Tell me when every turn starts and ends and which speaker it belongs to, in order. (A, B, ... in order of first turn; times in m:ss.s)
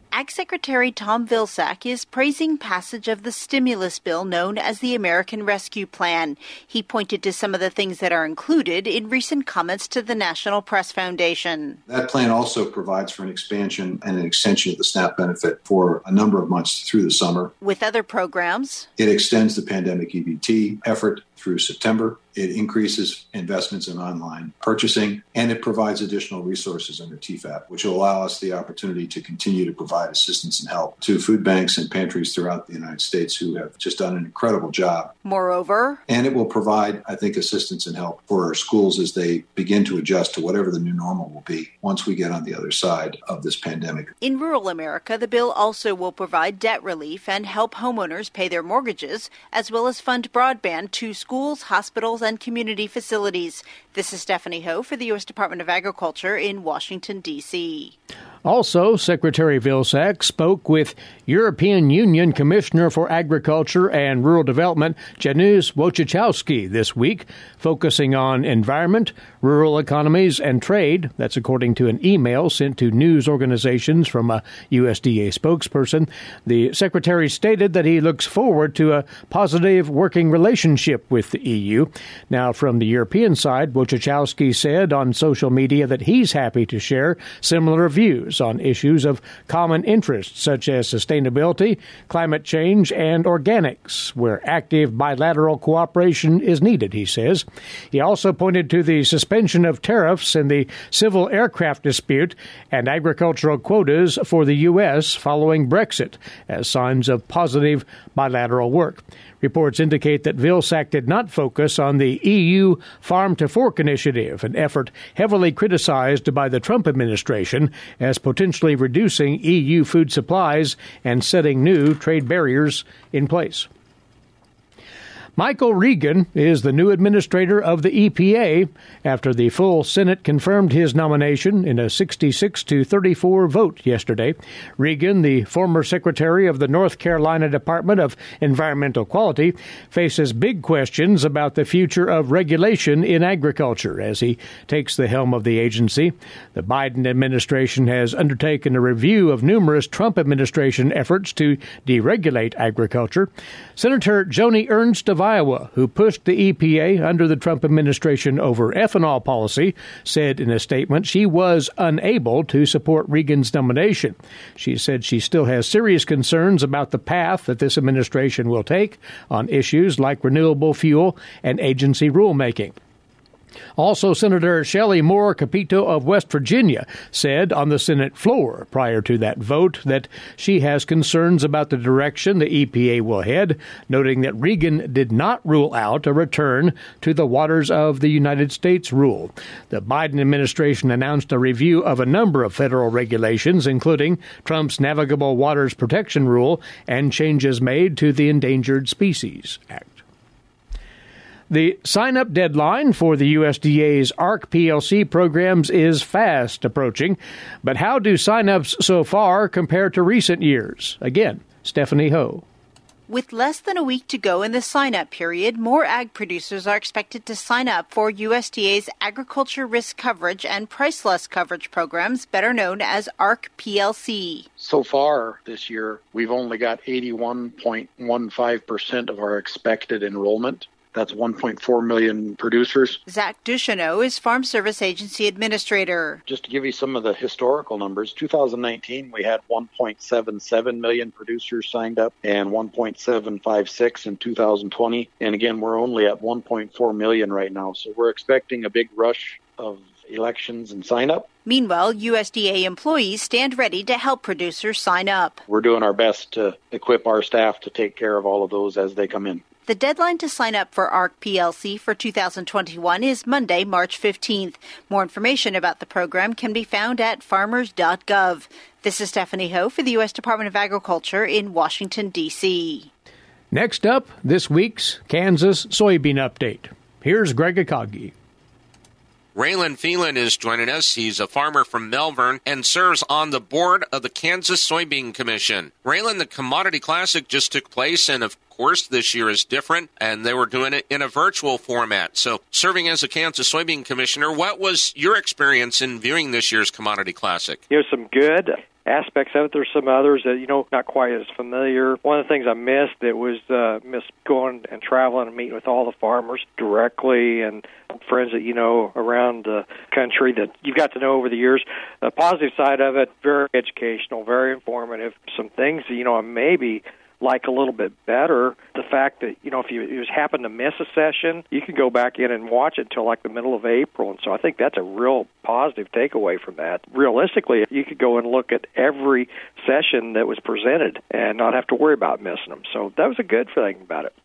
0:00.1-0:11.8 A
0:11.9-0:17.5 B
0:17.6-0:18.9 A
0:19.0-0:35.1 B
0:35.2-0:36.0 A
0:36.1-0:44.1 B
0:44.2-0:57.9 A
0:58.4-2:03.7 C
2:05.4-2:52.8 C
2:53.8-3:20.0 C
3:21.5-3:32.4 C
3:33.1-3:44.5 A
3:44.6-3:53.0 D
3:53.1-3:56.2 A
3:56.3-4:11.3 D
4:11.4-4:15.4 A
4:15.5-4:19.5 D
4:19.6-4:32.9 A
4:33.5-4:38.1 C
4:39.3-4:57.6 E
4:57.7-5:34.1 F